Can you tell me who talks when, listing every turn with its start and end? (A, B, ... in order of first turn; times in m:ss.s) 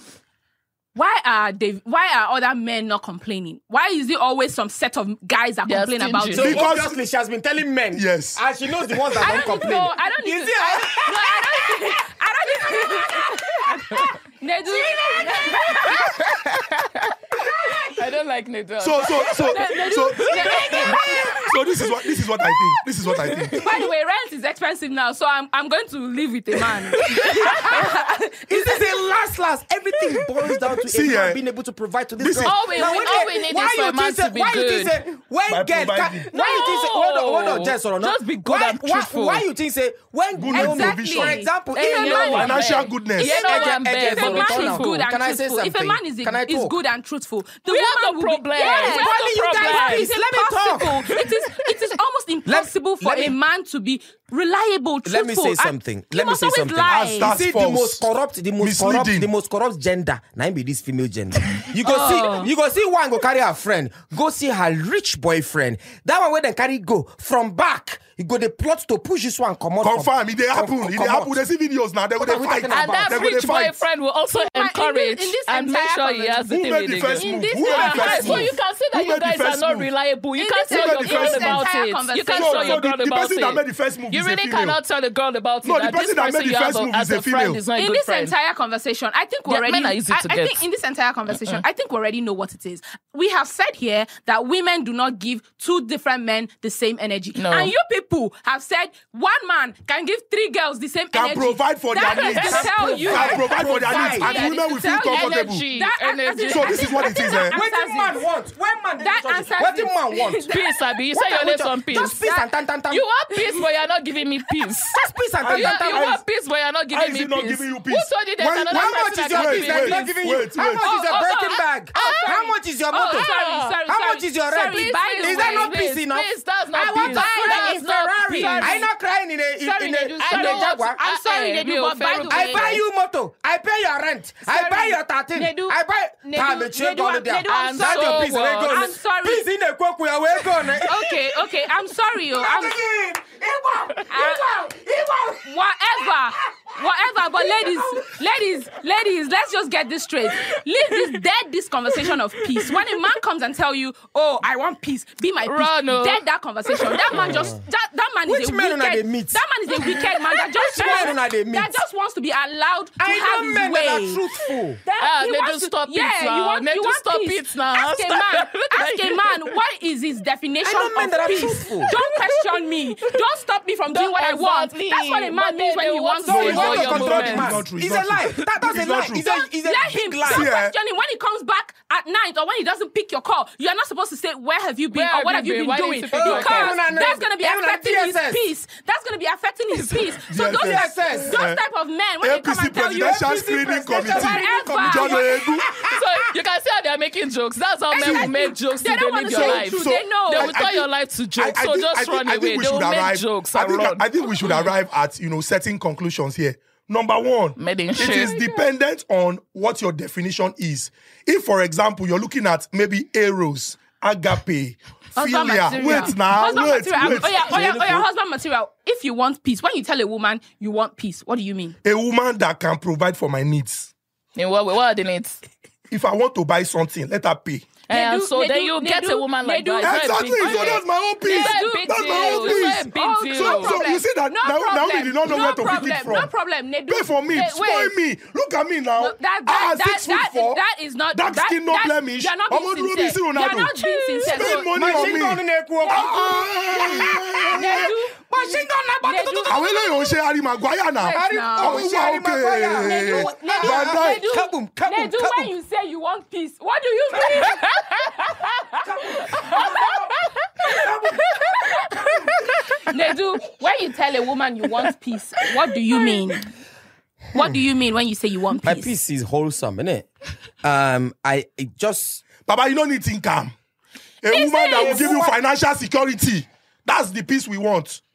0:00.9-0:06.7 A
0:05.6-0:06.6 B
0:06.3-0:12.0 C
0:06.3-0:07.0 D
0:07.9-0:09.3 D
0:09.1-0:16.3 A
0:12.6-0:14.1 C
0:14.6-0:15.7 C
0:15.7-0:23.8 B
0:18.8-0:23.6 D
0:19.2-0:21.3 A
0:20.6-0:21.4 C
0:23.5-0:28.8 A
0:26.9-0:27.7 B
0:27.1-0:27.9 C
0:28.5-0:42.7 C
0:30.2-0:30.7 B
0:30.8-0:31.4 D
0:32.2-0:32.7 D
0:32.4-0:35.0 B
0:35.5-0:36.3 D
0:36.3-0:39.4 B
0:36.3-0:36.8 A
0:40.3-0:41.4 D
0:40.5-0:42.5 A
0:41.7-0:45.0 B
0:42.3-0:43.3 D
0:43.2-0:57.3 A
0:43.2-0:46.8 C
0:47.7-0:50.1 B
0:48.8-0:51.2 C
0:51.2-0:51.7 B
0:52.4-0:53.4 C
0:55.0-1:11.4 C
0:56.8-0:58.0 D
0:58.6-0:59.3 D
1:01.8-1:02.5 A
1:09.8-1:13.8 D
1:12.2-1:13.2 C
1:12.7-1:28.3 B
1:14.3-1:16.4 A
1:16.5-1:19.9 D
1:17.1-1:18.5 A
1:20.4-1:22.8 A
1:20.7-1:21.6 D
1:22.3-1:24.8 D
1:25.6-1:27.6 D
1:27.8-1:48.2 A
1:29.4-1:30.6 B
1:37.4-1:37.7 B
1:41.1-1:45.6 D
1:42.0-1:43.3 B
1:42.3-1:44.4 C
1:45.1-1:47.1 B
1:46.5-1:47.6 D
1:47.5-1:50.4 C
1:49.0-1:52.5 A
1:50.5-1:52.2 B
1:51.2-1:53.0 C
1:52.9-2:00.2 B
1:53.3-1:53.6 A
1:54.9-1:56.1 C
1:55.4-1:56.2 D
1:56.9-2:00.8 D
1:58.7-2:03.3 C
2:00.8-2:05.7 A
2:01.9-2:03.8 B
2:03.8-2:11.0 C
2:04.7-2:08.8 B
2:06.7-2:08.9 A
2:09.6-2:12.8 A
2:09.9-2:12.8 B
2:12.3-2:21.4 C
2:14.4-2:19.4 A
2:17.4-2:18.9 B
2:20.8-2:22.8 A
2:22.3-2:28.1 C
2:24.1-2:24.7 A
2:25.4-2:44.2 A
2:30.5-2:31.2 B
2:31.9-2:33.0 B
2:35.4-2:36.2 B
2:36.8-2:37.4 B
2:37.1-2:37.6 C
2:38.3-2:41.8 C
2:43.0-2:44.8 C
2:44.8-2:57.4 A
2:45.0-2:49.5 B
2:50.6-2:51.9 C
2:51.9-2:53.2 B
2:53.9-2:57.6 B
2:56.2-3:00.5 C
2:56.3-2:59.2 D
2:59.2-3:15.3 A
3:00.2-3:00.7 D
3:04.9-3:07.2 B
3:06.1-3:08.4 C
3:10.3-3:11.6 D
3:10.4-3:11.4 C
3:12.2-3:15.8 D
3:12.9-3:16.3 C
3:15.9-3:24.7 B
3:17.9-3:20.7 A
3:18.0-3:18.3 D
3:19.3-3:38.0 D
3:27.6-3:28.5 B
3:35.2-3:41.8 A
3:41.8-3:43.9 D
3:44.4-3:45.4 B
3:45.9-3:47.7 D
3:47.9-3:53.8 B
3:47.9-3:58.0 A
3:49.8-3:56.3 D
3:56.9-4:00.6 D
3:59.0-4:05.2 A
4:01.1-4:03.7 D
4:03.5-4:04.5 B
4:04.2-4:07.9 D
4:04.6-4:09.7 C
4:05.9-4:06.2 A
4:07.5-4:08.2 A
4:09.0-4:10.2 A
4:09.4-4:14.2 D
4:10.9-4:12.0 A
4:11.1-4:15.5 C
4:12.7-4:18.4 A
4:18.8-4:22.3 C
4:19.3-4:19.7 A
4:20.8-4:21.9 A
4:22.8-4:26.5 A
4:25.9-4:26.2 B
4:27.3-4:28.9 A
4:28.6-4:30.1 C
4:30.6-4:32.2 C
4:32.4-4:33.5 D
4:34.2-4:38.0 D
4:34.3-4:35.1 A
4:34.7-4:35.4 C